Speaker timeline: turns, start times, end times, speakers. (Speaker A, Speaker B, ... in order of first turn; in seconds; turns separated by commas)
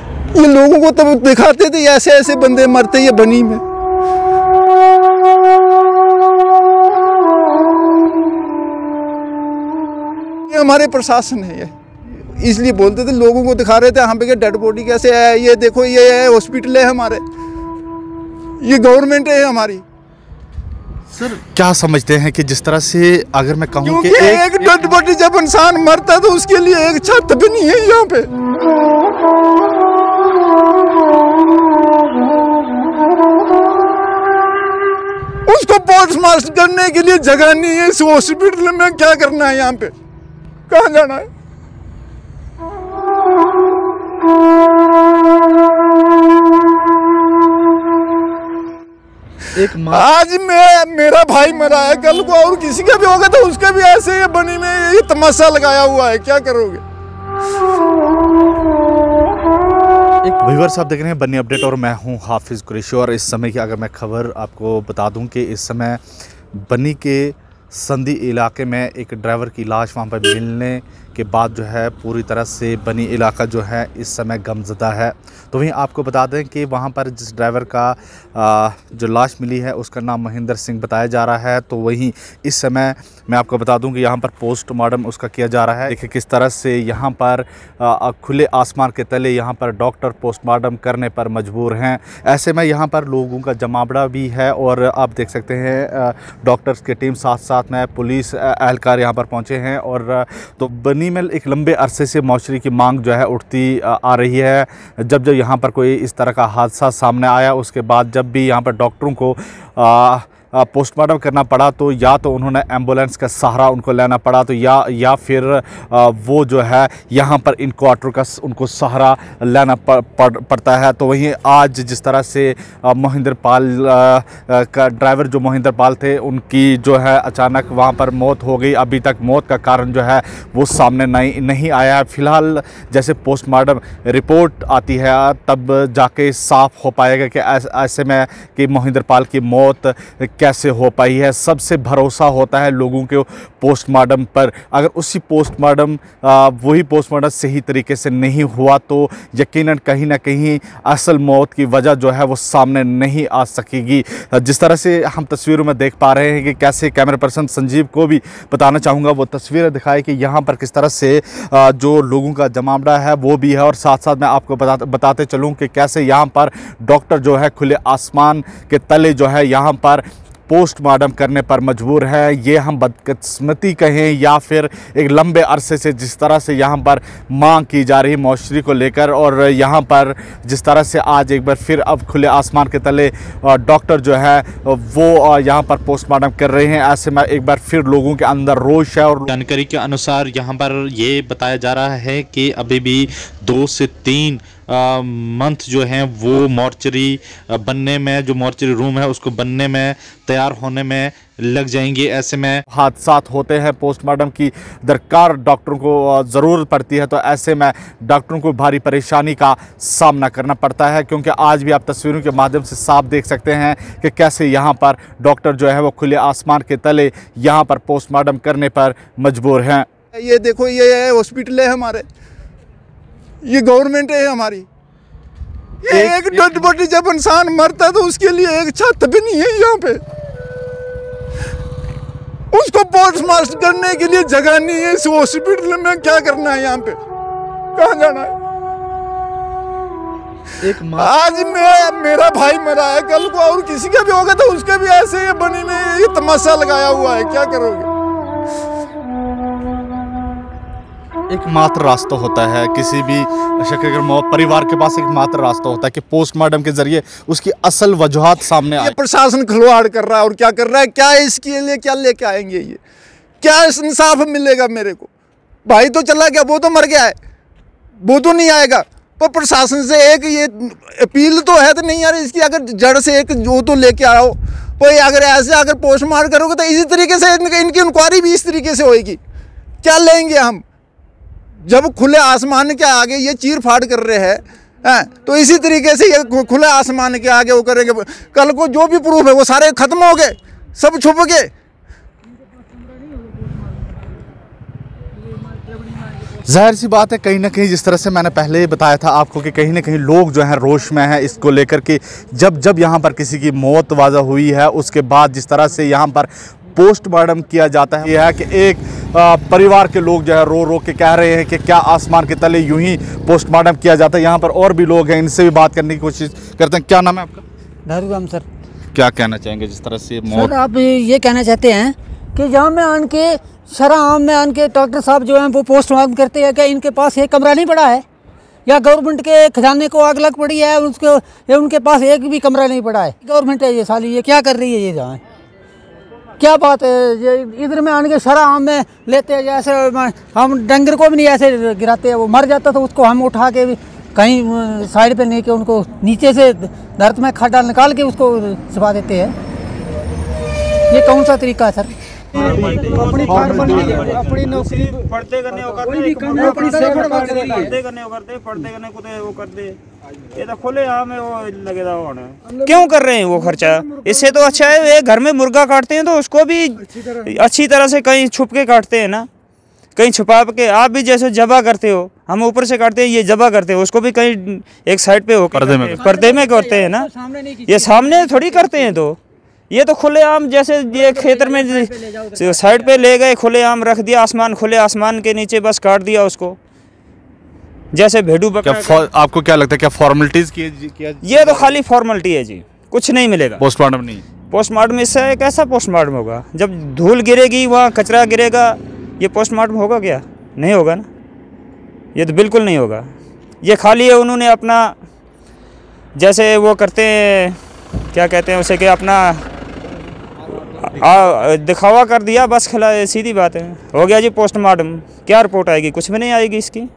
Speaker A: 0.3-3.6, Speaker A: 10.5-17.2, Speaker A: 18.6-19.8, Speaker B: 21.1-24.9, Speaker A: 23.8-28.3, Speaker A: 35.4-39.9, Speaker A: 40.7-41.3, Speaker B: 49.6-50.1, Speaker A: 49.9-56.8, Speaker B: 60.2-66.0, Speaker B: 66.6-191.5, Speaker C: 191.7-192.7, Speaker B: 193.8-194.2, Speaker C: 194.7-202.5, Speaker B: 202.6-219.9, Speaker A: 220.1-222.1, Speaker A: 223.4-224.7, Speaker A: 225.8-230.0, Speaker B: 225.9-226.7, Speaker A: 232.5-237.0, Speaker A: 237.8-238.3, Speaker B: 240.6-241.1, Speaker A: 240.9-247.9, Speaker B: 251.3-258.9, Speaker A: 258.8-262.8, Speaker A: 263.4-265.1, Speaker A: 265.6-267.1, Speaker A: 268.0-279.2, Speaker A: 279.8-280.6, Speaker A: 281.6-291.5, Speaker B: 296.4-317.4, Speaker D: 317.9-318.4, Speaker B: 318.9-320.5, Speaker D: 320.3-328.0, Speaker D: 328.6-335.2, Speaker D: 336.4-349.3, Speaker D: 350.9-352.5, Speaker E: 352.3-359.8, Speaker D: 353.1-354.4, Speaker D: 356.1-357.6, Speaker E: 360.3-369.3, Speaker E: 369.9-377.1, Speaker B: 375.5-376.1, Speaker D: 376.0-378.4, Speaker E: 377.6-379.2, Speaker E: 379.7-386.6, Speaker D: 381.3-382.2, Speaker E: 387.9-389.0, Speaker B: 388.6-391.8, Speaker E: 391.2-393.6, Speaker B: 393.6-394.2, Speaker E: 394.5-401.1, Speaker E: 402.1-404.9, Speaker E: 406.1-407.6, Speaker E: 408.1-409.4, Speaker E: 410.8-416.9